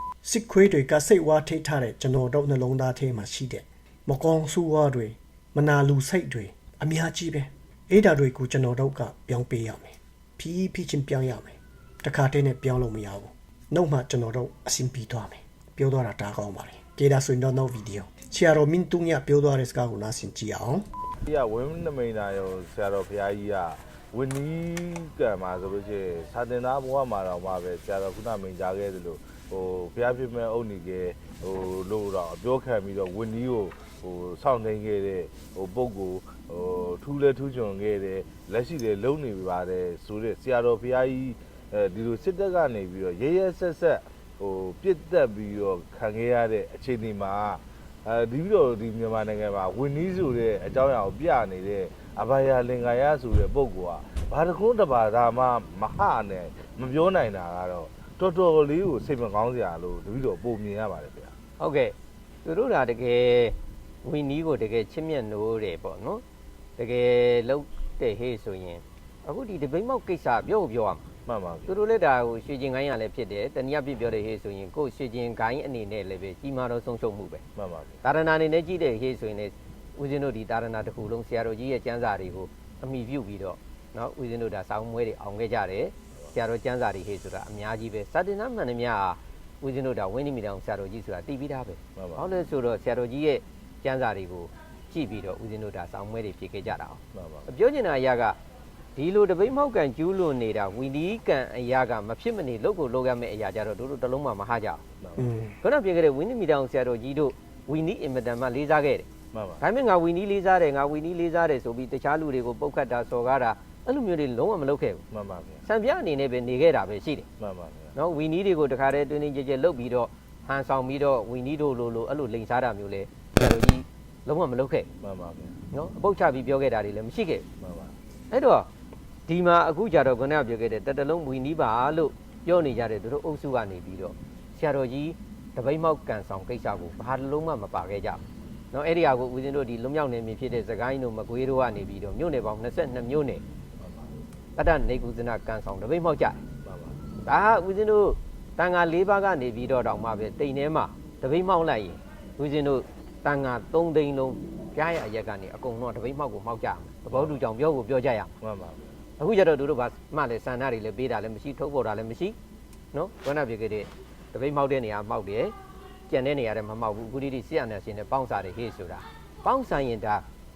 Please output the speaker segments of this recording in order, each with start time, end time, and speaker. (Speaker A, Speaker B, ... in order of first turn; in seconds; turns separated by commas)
Speaker A: 0.2-20.8, Speaker B: 21.2-61.3, Speaker C: 61.6-66.2, Speaker C: 66.8-71.0, Speaker B: 71.2-71.8, Speaker C: 71.7-77.4, Speaker B: 77.5-78.0, Speaker C: 78.0-98.4, Speaker B: 92.0-92.3, Speaker B: 97.1-97.5, Speaker C: 98.9-104.8, Speaker B: 105.0-105.2, Speaker A: 105.2-105.5, Speaker C: 105.6-109.1, Speaker B: 109.3-109.7, Speaker C: 109.6-115.0, Speaker B: 115.1-115.6, Speaker C: 115.7-117.3, Speaker B: 117.4-118.0, Speaker C: 118.0-124.9, Speaker B: 125.0-125.5, Speaker C: 125.7-127.4, Speaker B: 127.6-127.9, Speaker C: 128.3-128.7, Speaker C: 129.2-143.4, Speaker B: 143.8-144.1, Speaker C: 144.5-146.4, Speaker B: 146.6-147.0, Speaker C: 147.2-158.3, Speaker B: 157.1-157.5, Speaker B: 158.4-158.9, Speaker C: 159.2-162.3, Speaker C: 162.9-165.5, Speaker C: 166.1-170.2